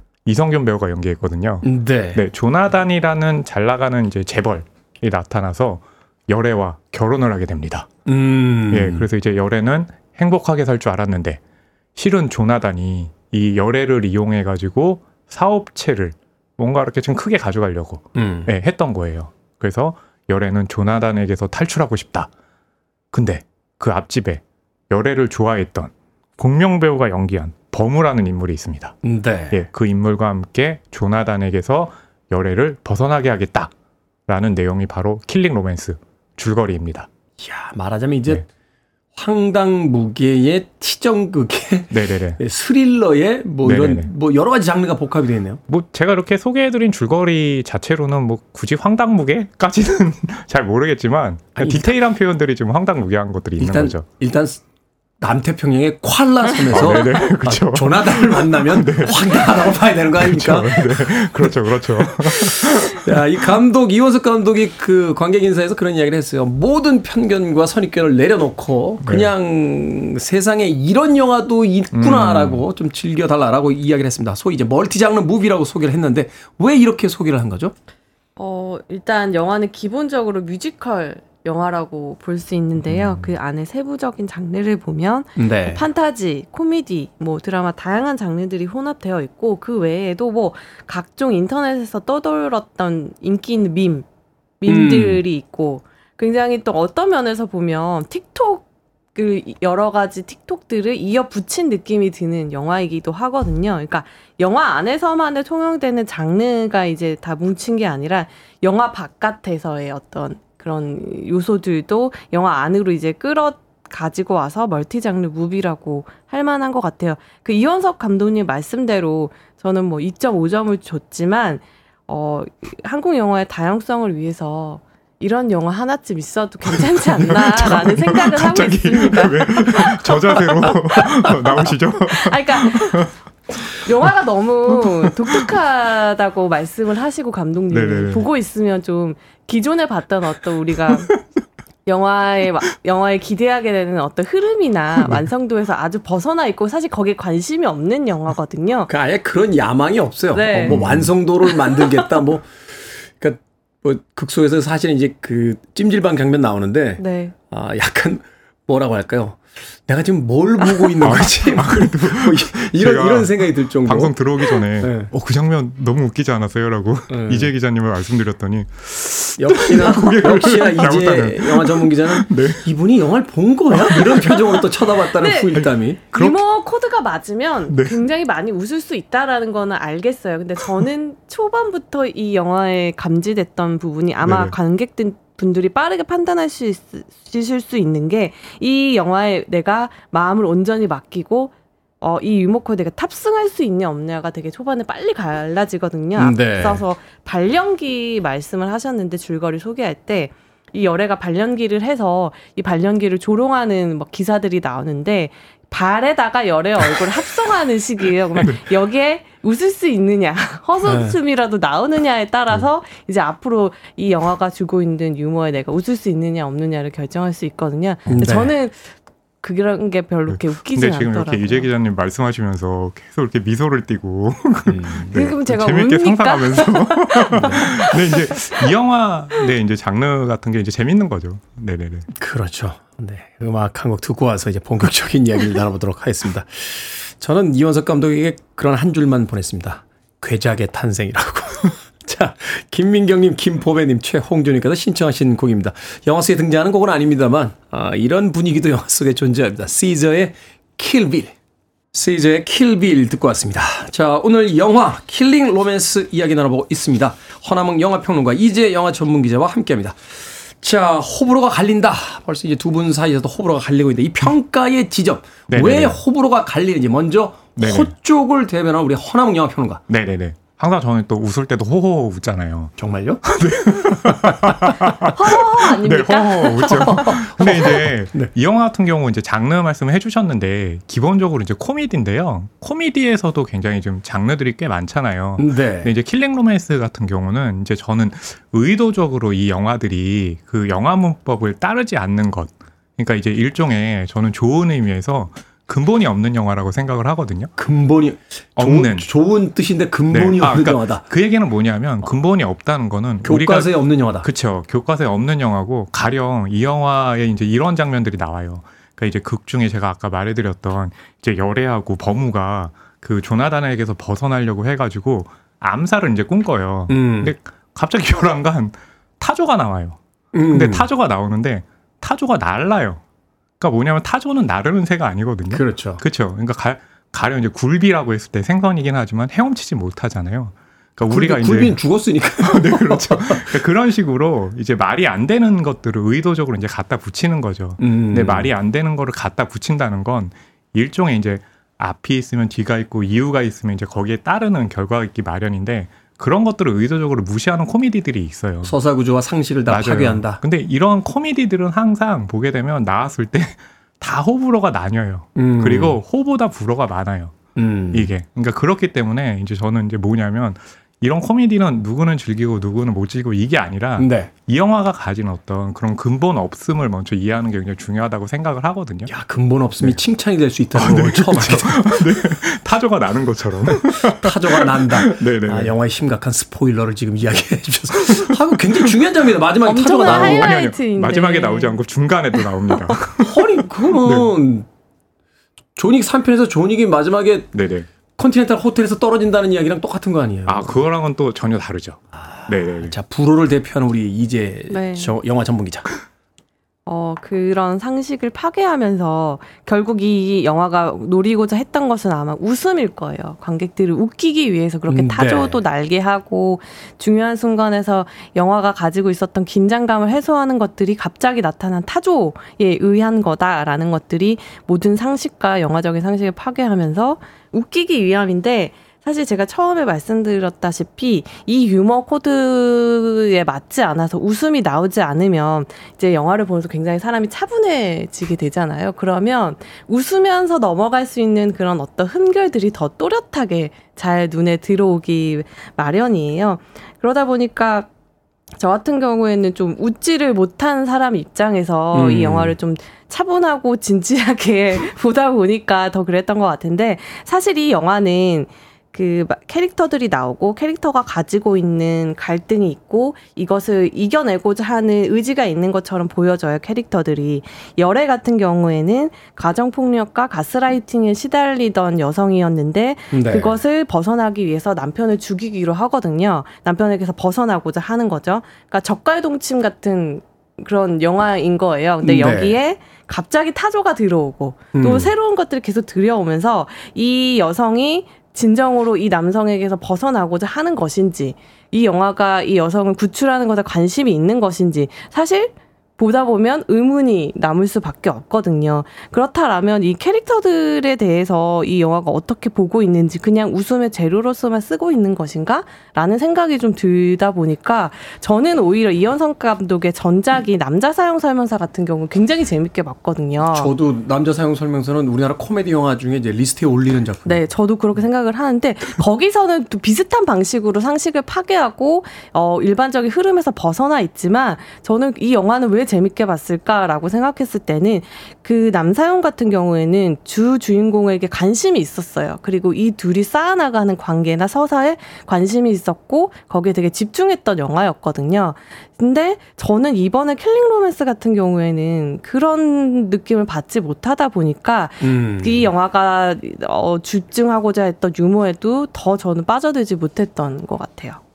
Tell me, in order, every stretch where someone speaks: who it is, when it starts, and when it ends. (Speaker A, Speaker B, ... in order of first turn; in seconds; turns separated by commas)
Speaker A: 0.3-7.9, Speaker B: 1.6-2.3, Speaker B: 8.1-9.1, Speaker A: 8.7-11.4, Speaker A: 12.0-22.3, Speaker B: 18.2-18.5, Speaker A: 23.1-29.0, Speaker B: 29.0-29.6, Speaker A: 29.5-33.7, Speaker A: 34.3-37.1, Speaker B: 37.4-38.5, Speaker B: 39.1-45.6, Speaker A: 41.9-42.4, Speaker A: 43.6-44.1, Speaker A: 45.7-54.1, Speaker B: 51.6-51.9, Speaker B: 53.6-54.6, Speaker B: 55.2-77.7, Speaker A: 56.7-63.1, Speaker A: 69.0-69.3, Speaker A: 71.9-72.7, Speaker C: 78.4-94.1, Speaker A: 82.8-83.3, Speaker B: 85.4-85.9, Speaker C: 94.6-133.1, Speaker B: 94.7-95.2, Speaker A: 126.7-133.1, Speaker C: 133.9-141.1, Speaker A: 134.7-135.5, Speaker A: 137.7-138.3, Speaker A: 140.8-141.2, Speaker C: 141.9-148.9, Speaker B: 148.9-152.5, Speaker C: 150.3-150.8, Speaker A: 150.6-151.1, Speaker B: 153.2-165.1, Speaker C: 157.0-157.3, Speaker A: 161.0-172.6, Speaker B: 167.1-167.5, Speaker B: 169.4-176.0, Speaker A: 173.9-174.3, Speaker C: 175.2-221.7, Speaker A: 175.6-176.4, Speaker A: 177.7-178.0, Speaker A: 184.2-184.6, Speaker B: 196.2-196.8, Speaker A: 208.3-208.8, Speaker B: 210.8-211.2, Speaker A: 218.1-218.3, Speaker B: 218.1-218.5, Speaker A: 220.3-232.1, Speaker B: 224.7-225.2, Speaker C: 225.1-228.7, Speaker B: 227.3-227.7, Speaker B: 232.1-251.3, Speaker B: 251.9-269.8, Speaker A: 265.5-266.0, Speaker A: 267.6-267.9, Speaker A: 269.9-272.7, Speaker B: 272.8-273.2, Speaker A: 273.2-297.5, Speaker B: 274.3-274.6, Speaker C: 275.1-277.1, Speaker B: 276.6-278.3, Speaker B: 285.4-285.9, Speaker B: 297.6-301.1, Speaker A: 298.6-299.1, Speaker A: 300.1-320.0, Speaker B: 303.2-304.3, Speaker B: 316.9-317.3, Speaker B: 320.3-320.9, Speaker A: 320.5-323.0, Speaker A: 323.6-331.8, Speaker B: 325.5-326.0, Speaker B: 331.1-333.6, Speaker A: 332.4-348.8, Speaker B: 337.8-338.5, Speaker B: 348.6-350.4, Speaker A: 349.7-357.4, Speaker B: 355.4-356.0, Speaker B: 357.6-358.1, Speaker A: 357.9-369.1, Speaker B: 364.0-364.3, Speaker B: 369.1-372.3, Speaker A: 370.7-375.8, Speaker B: 374.0-380.6, Speaker A: 378.0-378.4, Speaker C: 379.6-381.8, Speaker A: 379.7-384.3, Speaker B: 383.2-384.7, Speaker B: 385.8-387.5, Speaker A: 387.5-387.9, Speaker B: 388.2-390.9, Speaker A: 390.5-393.0, Speaker B: 392.2-395.9, Speaker C: 394.7-395.1, Speaker C: 396.9-437.9, Speaker B: 404.9-405.6, Speaker C: 438.6-503.7, Speaker B: 441.9-442.6, Speaker B: 463.1-463.6, Speaker B: 472.0-472.6, Speaker B: 474.7-475.1, Speaker B: 503.5-507.4, Speaker C: 507.2-541.2, Speaker B: 535.0-535.7